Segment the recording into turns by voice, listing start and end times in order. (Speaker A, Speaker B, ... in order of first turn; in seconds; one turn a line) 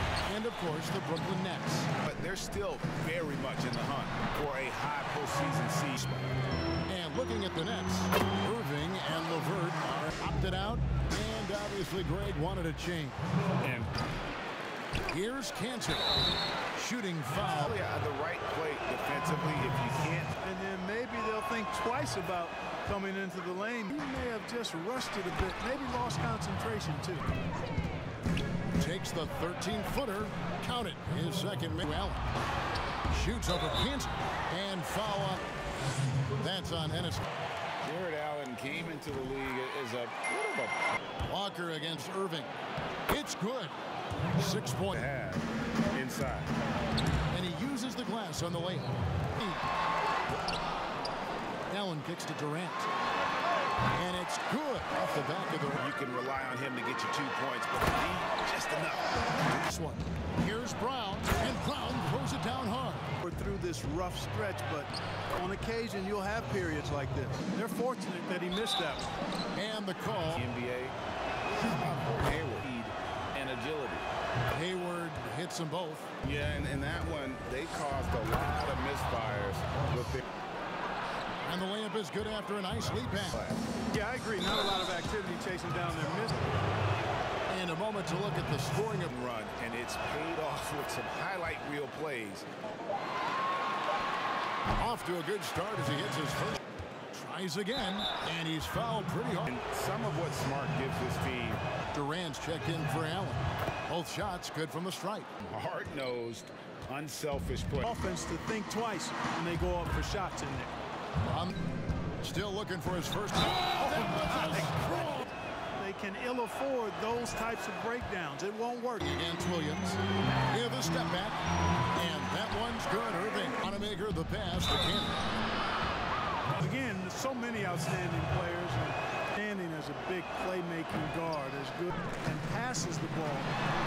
Speaker A: 0.3-1.9
Speaker B: 2.0-6.3
Speaker A: 6.9-13.2
Speaker B: 13.6-13.9
Speaker A: 15.1-16.1
Speaker A: 16.8-17.8
Speaker B: 17.6-20.3
Speaker C: 20.4-27.3
Speaker A: 28.8-32.3
Speaker A: 33.1-35.5
Speaker A: 36.4-37.2
Speaker B: 37.8-40.8
Speaker A: 41.3-42.5
Speaker A: 43.1-43.7
Speaker A: 44.3-45.0
Speaker B: 44.9-46.5
Speaker A: 47.3-49.6
Speaker A: 51.7-52.9
Speaker A: 53.9-55.8
Speaker B: 55.8-59.2
Speaker A: 59.5-63.0
Speaker C: 63.2-69.1
Speaker A: 69.5-70.4
Speaker B: 70.3-71.0
Speaker B: 71.6-74.1
Speaker A: 74.5-76.1
Speaker B: 76.2-80.2
Speaker A: 81.4-83.4
Speaker B: 83.0-83.7
Speaker C: 83.9-86.5
Speaker A: 87.5-89.1
Speaker B: 89.1-92.5
Speaker A: 94.8-96.6
Speaker A: 97.1-99.5
Speaker B: 99.5-101.6
Speaker A: 101.9-105.3
Speaker B: 105.4-107.9
Speaker C: 107.8-110.7
Speaker A: 111.2-111.5
Speaker A: 112.2-115.3
Speaker C: 114.5-114.8
Speaker C: 115.8-119.0
Speaker A: 119.0-120.0
Speaker A: 120.5-125.2
Speaker C: 126.5-133.5